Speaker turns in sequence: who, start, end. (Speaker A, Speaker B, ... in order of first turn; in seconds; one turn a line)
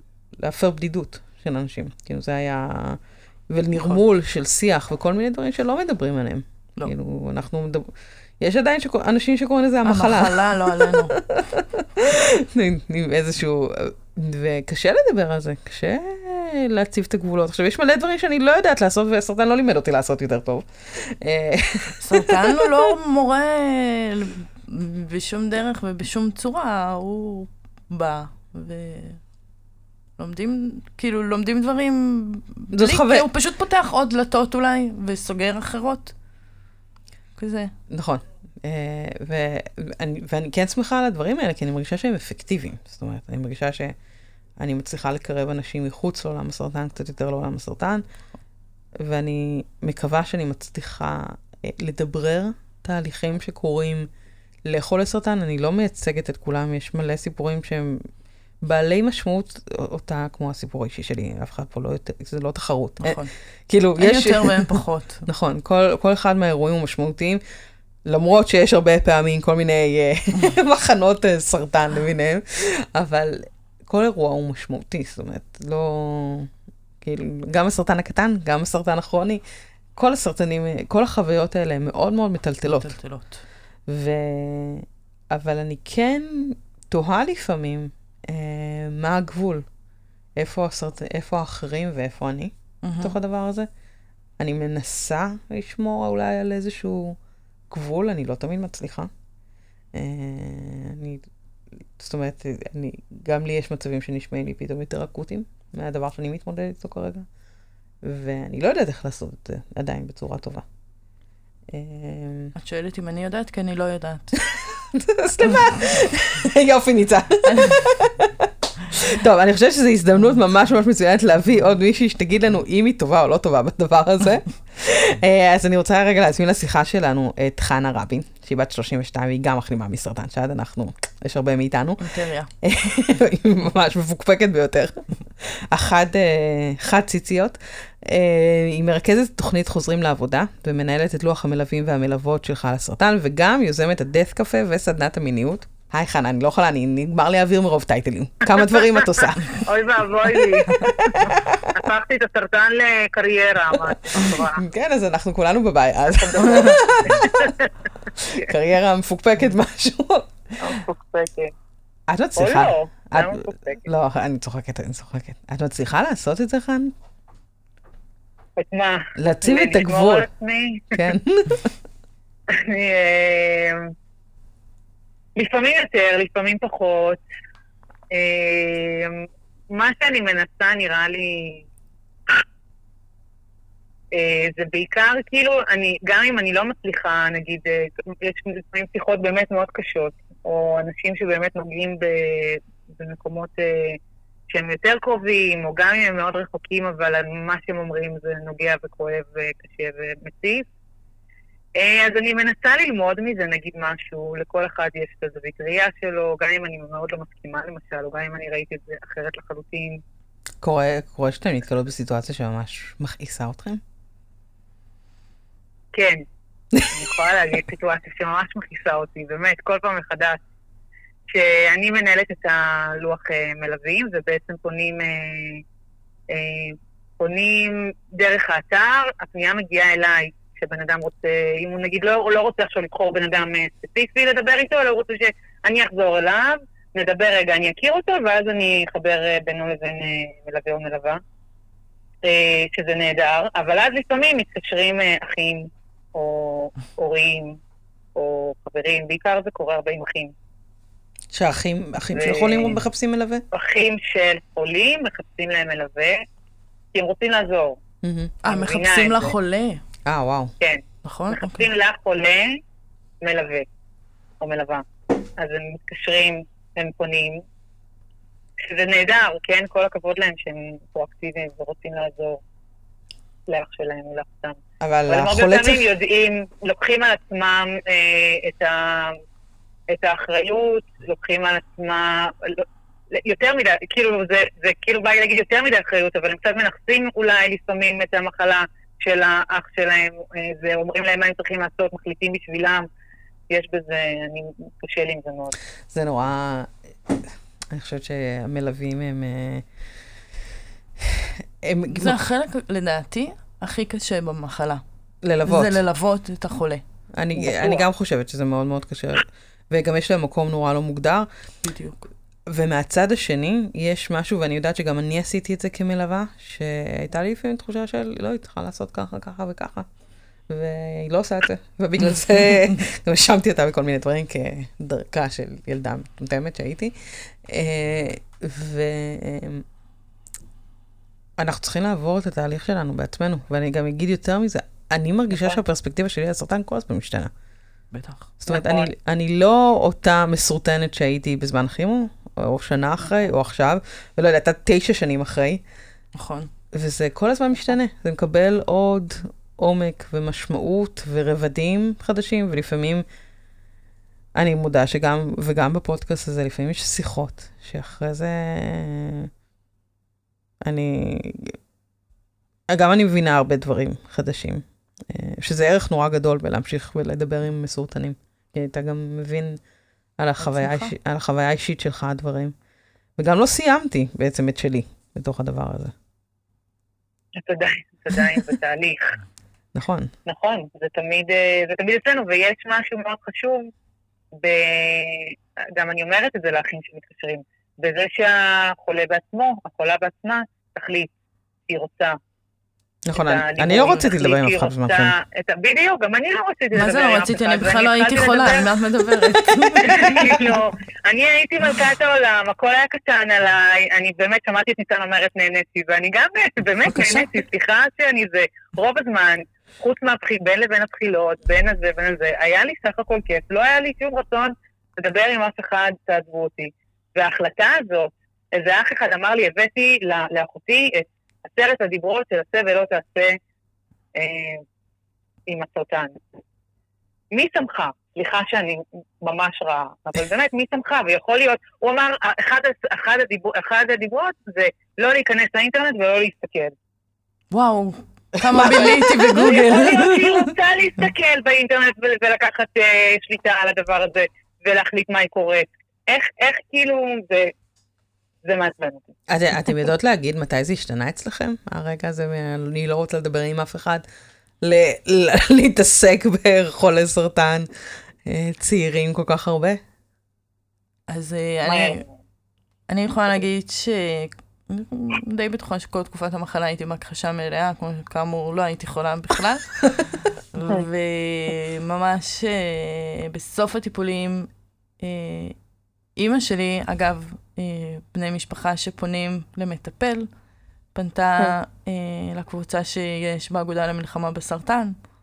Speaker A: 0.4-22.9
Speaker B: 9.8-11.2
Speaker B: 22.0-29.2
Speaker B: 30.2-36.1
Speaker A: 32.7-33.2
Speaker B: 37.4-37.7
Speaker A: 37.9-43.9
Speaker A: 44.6-48.0
Speaker A: 49.0-54.1
Speaker A: 54.6-58.0
Speaker A: 58.6-67.4
Speaker B: 63.0-63.3
Speaker B: 64.0-65.2
Speaker A: 68.0-76.5
Speaker A: 77.0-79.4
Speaker A: 80.0-83.0
Speaker B: 82.6-83.4
Speaker A: 83.9-89.6
Speaker A: 90.3-93.7
Speaker B: 92.8-93.2
Speaker A: 94.4-97.2
Speaker A: 97.7-99.1
Speaker A: 99.9-101.3
Speaker A: 102.0-107.3
Speaker A: 108.0-110.6
Speaker A: 111.7-112.5
Speaker B: 112.5-114.3
Speaker A: 114.3-149.6
Speaker B: 117.5-117.8
Speaker B: 132.0-132.5
Speaker C: 148.6-154.6
Speaker A: 150.4-151.9
Speaker A: 153.7-157.5
Speaker C: 156.2-157.7
Speaker B: 156.4-156.8
Speaker A: 158.2-160.8
Speaker C: 160.6-161.5
Speaker A: 162.1-166.9
Speaker C: 162.4-163.9
Speaker C: 168.6-171.1
Speaker A: 169.2-170.3
Speaker A: 170.9-171.7
Speaker C: 172.5-173.9
Speaker C: 175.3-177.2
Speaker C: 178.1-181.6
Speaker C: 184.1-194.0
Speaker C: 194.5-200.7
Speaker C: 201.8-210.0
Speaker A: 210.6-213.8
Speaker C: 215.9-216.2
Speaker A: 216.7-217.2
Speaker C: 216.9-220.4
Speaker C: 221.3-225.6
Speaker C: 226.3-241.2
Speaker C: 242.2-247.6
Speaker C: 248.1-250.3
Speaker A: 251.3-253.4
Speaker C: 252.1-252.8
Speaker C: 253.5-256.2
Speaker C: 256.9-257.8
Speaker A: 258.0-258.3
Speaker B: 258.4-259.8
Speaker C: 258.4-259.3
Speaker A: 260.0-260.5
Speaker C: 260.6-262.6
Speaker B: 261.0-261.6
Speaker C: 263.2-263.7
Speaker C: 264.4-264.8
Speaker C: 265.4-267.4
Speaker C: 268.6-272.4
Speaker C: 273.5-279.2
Speaker A: 274.8-275.9
Speaker C: 279.9-292.9
Speaker C: 293.5-295.6
Speaker A: 295.9-299.6
Speaker A: 301.0-302.2
Speaker B: 301.9-304.8
Speaker A: 305.2-305.8
Speaker B: 305.4-306.8
Speaker A: 307.1-311.3
Speaker C: 307.4-307.9
Speaker B: 311.6-312.1
Speaker A: 312.5-319.9
Speaker A: 320.5-329.6
Speaker A: 331.4-337.3
Speaker B: 337.9-338.3
Speaker A: 338.4-345.6
Speaker C: 338.5-338.9
Speaker B: 346.1-346.5
Speaker A: 346.7-353.0
Speaker A: 354.3-359.3
Speaker A: 360.6-361.6
Speaker A: 362.7-369.6
Speaker A: 370.2-372.5
Speaker B: 370.4-370.9
Speaker A: 373.2-375.9
Speaker C: 377.4-379.2
Speaker A: 379.7-380.1
Speaker C: 380.2-383.7
Speaker C: 384.3-391.1
Speaker C: 391.7-392.2
Speaker A: 393.1-395.1
Speaker C: 393.1-398.7
Speaker B: 396.7-400.4
Speaker C: 399.8-423.4
Speaker B: 406.9-407.3
Speaker C: 424.1-424.6
Speaker C: 425.5-426.1
Speaker C: 427.3-436.7
Speaker B: 437.5-440.5
Speaker A: 438.4-439.5
Speaker C: 439.3-447.5
Speaker C: 448.4-449.1
Speaker A: 449.3-454.0
Speaker A: 454.6-457.7
Speaker A: 458.2-459.8
Speaker B: 461.1-462.0
Speaker C: 461.7-462.0
Speaker B: 462.9-474.5
Speaker B: 475.0-475.6
Speaker B: 476.1-480.3
Speaker B: 480.9-484.9